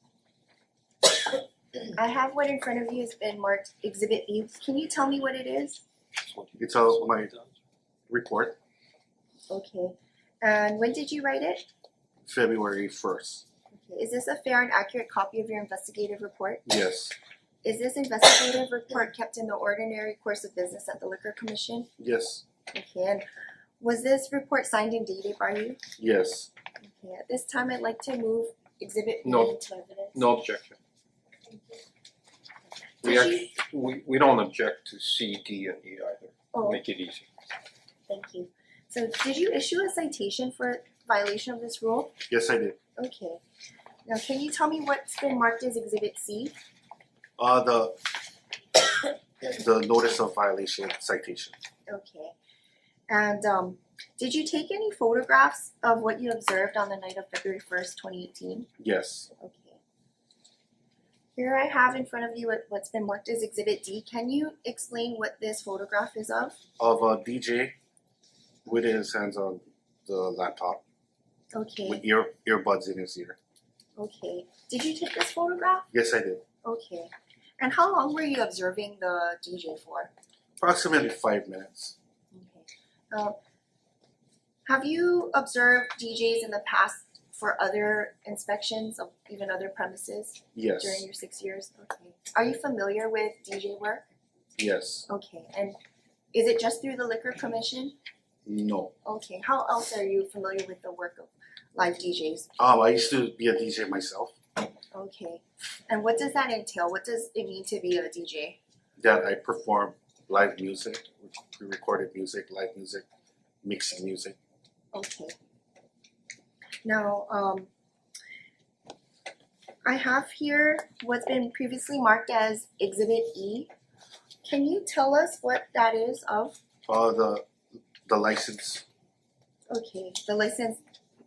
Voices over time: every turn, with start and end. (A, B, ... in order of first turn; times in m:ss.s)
0:01.9-0:05.8 A
0:06.3-0:07.5 B
0:06.6-0:07.3 C
0:08.1-0:08.6 C
0:09.5-0:11.6 A
0:12.2-0:13.4 C
0:13.7-0:16.6 A
0:16.6-0:17.1 C
0:17.6-0:21.9 A
0:22.0-0:22.4 C
0:22.7-0:23.2 A
0:23.8-0:25.8 A
0:26.0-0:26.5 C
0:26.8-0:30.3 A
0:29.2-0:29.6 B
0:30.1-0:30.8 B
0:33.0-0:37.2 B
0:33.0-0:33.5 A
0:36.5-0:36.8 A
0:38.1-0:42.2 A
0:42.3-0:42.8 C
0:43.0-0:43.4 A
0:44.1-0:46.5 A
0:47.4-0:48.0 C
0:49.4-0:51.6 C
0:51.9-0:52.3 A
0:53.1-0:58.7 A
0:58.8-0:59.3 C
0:59.4-0:59.8 A
1:01.4-1:06.6 A
1:06.8-1:07.7 C
1:08.6-1:10.8 C
1:11.5-1:12.0 A
1:11.8-1:13.4 C
1:14.0-1:15.9 A
1:15.9-1:16.4 C
1:16.6-1:20.1 A
1:20.6-1:21.9 C
1:22.3-1:23.4 A
1:24.7-1:34.0 A
1:30.5-1:31.0 C
1:34.6-1:35.1 C
1:35.1-1:35.8 A
1:36.3-1:37.9 A
1:38.4-1:38.9 C
1:39.0-1:42.5 A
1:42.6-1:44.3 C
1:44.9-1:48.6 A
1:49.0-1:53.0 C
1:53.6-1:54.4 C
1:54.9-1:55.3 A
1:56.8-1:57.7 A
1:59.8-2:03.7 A
2:04.4-2:06.6 A
2:06.9-2:07.5 C
2:08.0-2:08.8 C
2:09.7-2:10.8 A